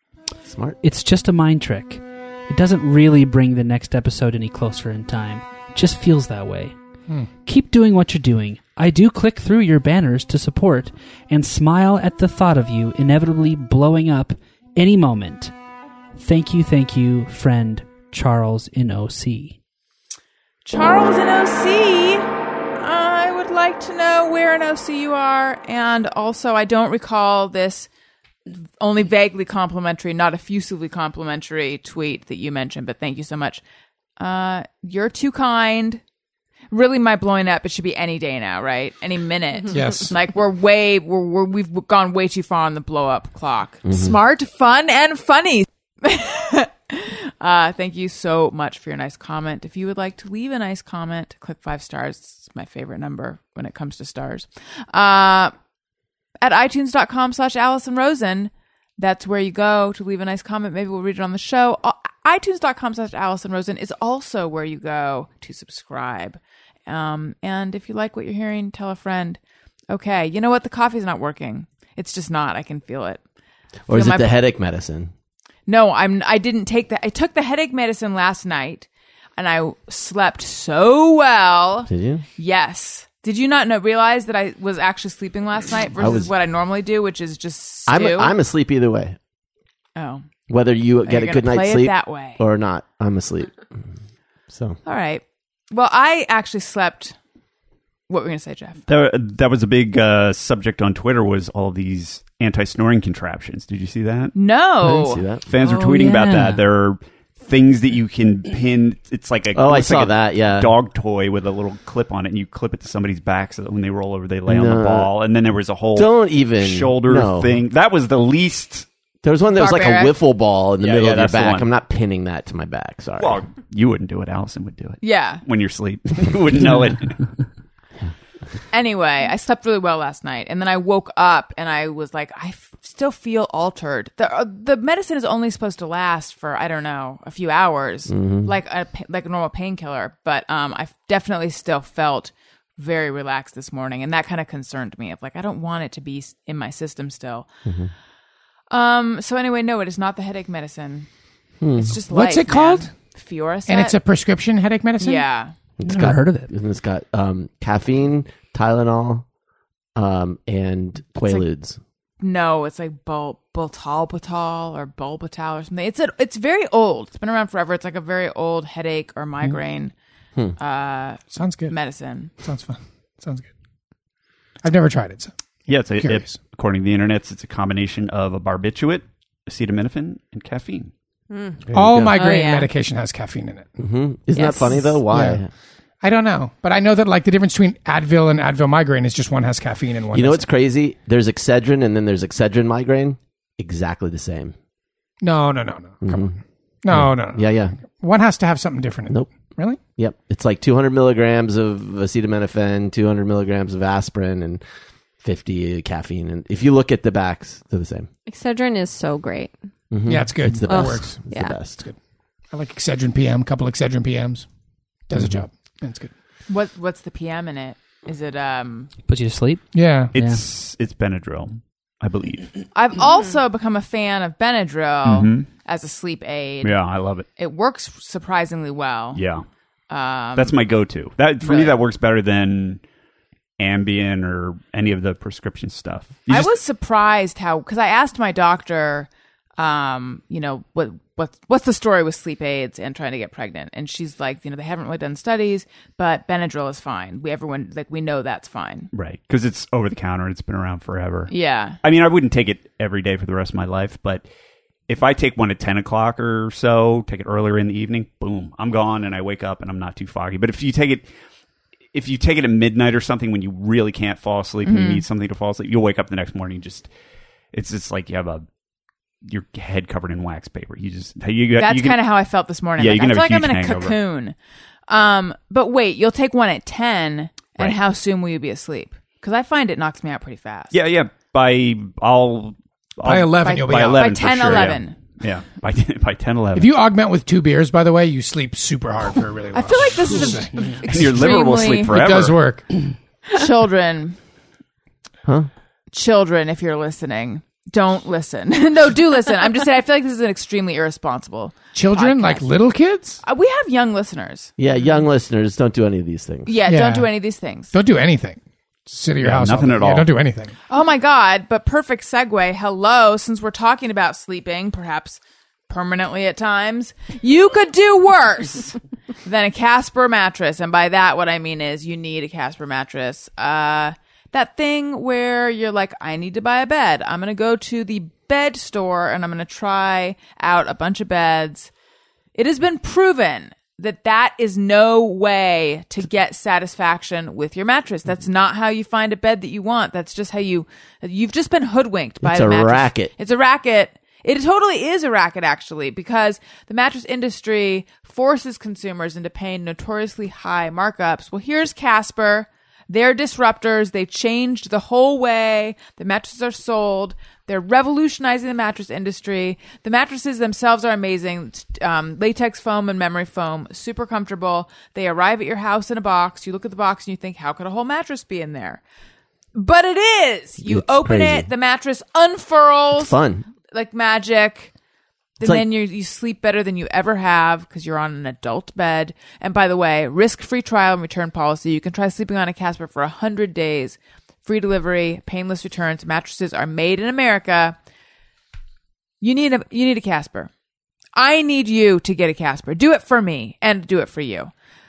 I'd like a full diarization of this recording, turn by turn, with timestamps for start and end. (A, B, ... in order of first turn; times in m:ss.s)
0:00.4-0:00.8 A
0:00.8-0:06.8 B
0:07.4-0:15.5 B
0:16.2-0:19.6 B
0:20.6-0:27.9 C
0:28.8-0:33.6 C
0:34.2-0:36.0 C
0:36.7-0:55.5 C
0:39.7-0:40.1 D
0:43.9-0:44.2 A
0:56.4-1:09.4 C
1:09.9-1:13.2 C
1:13.9-1:14.4 C
1:13.9-1:15.1 A
1:15.7-1:28.3 C
1:21.9-1:22.2 A
1:26.0-1:26.3 A
1:27.9-1:29.2 A
1:30.0-1:30.3 C
1:30.5-1:33.6 A
1:31.0-1:32.4 C
1:34.5-1:34.8 A
1:34.9-1:37.2 C
1:38.1-1:38.8 C
1:38.9-1:44.4 E
1:44.4-1:45.2 C
1:44.8-1:45.4 A
1:45.5-1:58.9 E
1:45.8-1:46.6 B
1:49.6-1:50.7 A
1:54.5-1:55.1 A
1:56.0-1:57.6 A
1:59.2-2:03.4 A
1:59.6-2:00.2 C
2:00.8-2:01.7 E
2:03.2-2:07.2 E
2:05.0-2:05.4 C
2:08.7-2:27.5 C
2:18.1-2:18.5 A
2:27.7-2:27.9 A
2:28.7-2:31.1 C
2:31.6-2:32.0 A
2:31.8-2:34.0 C
2:32.1-2:32.9 D
2:33.7-2:35.3 D
2:35.0-2:35.5 C
2:35.8-2:39.2 A
2:35.8-2:36.5 B
2:40.0-2:41.8 A
2:41.2-2:41.4 C
2:42.2-2:49.9 C
2:50.6-2:52.3 C
2:51.3-2:51.8 D
2:52.4-2:53.5 D
2:54.6-2:55.3 D
2:55.7-3:00.9 E
2:55.9-2:56.4 D
3:01.3-3:01.6 F
3:01.7-3:02.2 A
3:01.7-3:03.7 D
3:02.2-3:02.7 F
3:03.8-3:05.5 A
3:04.4-3:04.8 F
3:05.1-3:05.4 D
3:06.0-3:10.4 D
3:10.1-3:14.5 A
3:15.2-3:19.8 D
3:16.0-3:16.4 A
3:16.9-3:17.8 A
3:20.0-3:24.6 A
3:25.2-3:28.1 A
3:28.3-3:29.5 F
3:29.9-3:31.8 A
3:30.1-3:31.2 D
3:30.7-3:31.6 F
3:32.5-3:34.5 D
3:35.1-3:36.1 D
3:35.2-3:35.4 A
3:36.5-3:38.9 C
3:39.1-3:40.4 B
3:39.7-3:40.1 D
3:40.1-3:42.5 E
3:42.7-3:46.7 C
3:45.0-3:45.5 E
3:46.6-3:47.3 E
3:47.4-3:49.2 C
3:49.2-3:49.4 E
3:49.9-3:50.6 C
3:50.4-3:52.8 E
3:51.4-3:51.8 C
3:53.6-3:56.5 E
3:56.3-4:08.9 C
4:08.9-4:14.2 E
4:11.3-4:11.8 C
4:14.9-4:21.1 E
4:21.9-4:26.9 E
4:24.6-4:25.0 C
4:27.5-4:28.4 E
4:29.2-4:32.0 E
4:31.6-4:34.4 C
4:32.8-4:34.0 E
4:34.9-4:40.7 C
4:40.7-4:46.8 E
4:43.0-4:44.1 D
4:43.4-4:45.0 C
4:46.6-4:50.5 D
4:49.5-4:51.9 C
4:50.3-4:50.8 B
4:50.9-4:52.4 E
4:51.9-4:52.7 D
4:53.3-4:54.2 C
4:55.9-5:02.5 C
5:01.7-5:03.2 D
5:03.2-5:04.5 C
5:04.6-5:06.6 A
5:06.5-5:07.7 C
5:06.7-5:07.1 D
5:07.7-5:10.5 D
5:09.2-5:10.1 E
5:10.7-5:31.7 C
5:32.4-6:08.8 C
5:42.2-5:43.1 A
6:09.6-6:14.7 C
6:10.6-6:11.5 A
6:12.9-6:13.5 A
6:15.4-6:27.8 C
6:29.2-6:30.5 C
6:31.2-6:34.5 C